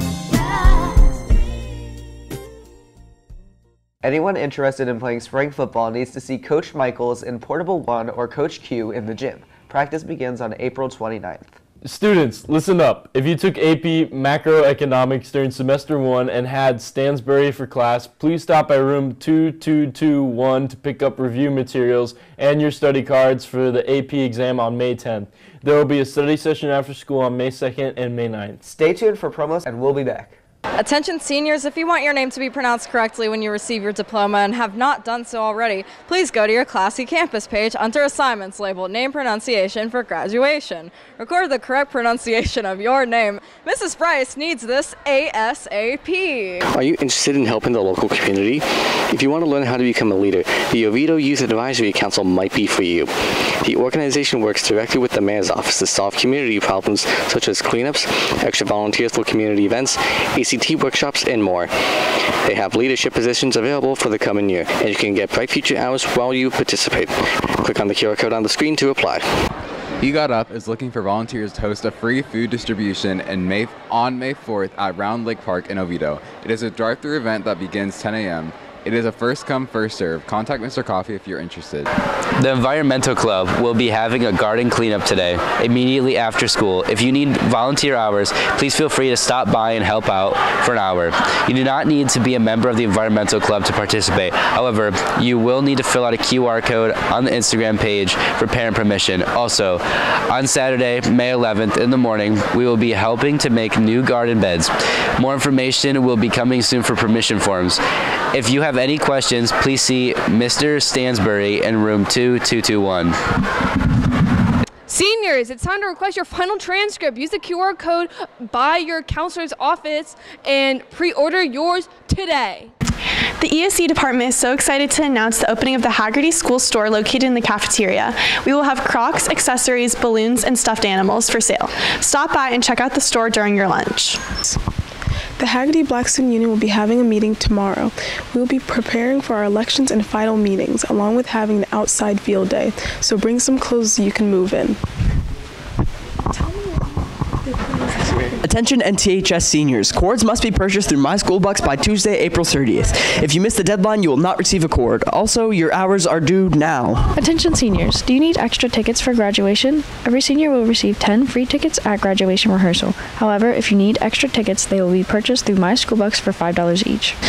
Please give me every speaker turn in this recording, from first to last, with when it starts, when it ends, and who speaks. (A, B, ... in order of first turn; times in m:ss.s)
0:04.0-0:11.5 A
0:11.8-0:28.6 B
0:28.6-0:30.4 A
0:30.8-0:46.6 C
0:46.7-1:01.7 D
1:02.4-1:09.2 D
1:10.0-1:21.9 E
1:22.4-1:47.8 F
1:48.3-1:53.1 F
1:54.9-2:02.7 G
2:03.4-2:14.2 H
2:15.4-2:24.8 I
2:28.4-2:37.1 J
2:37.2-2:47.1 K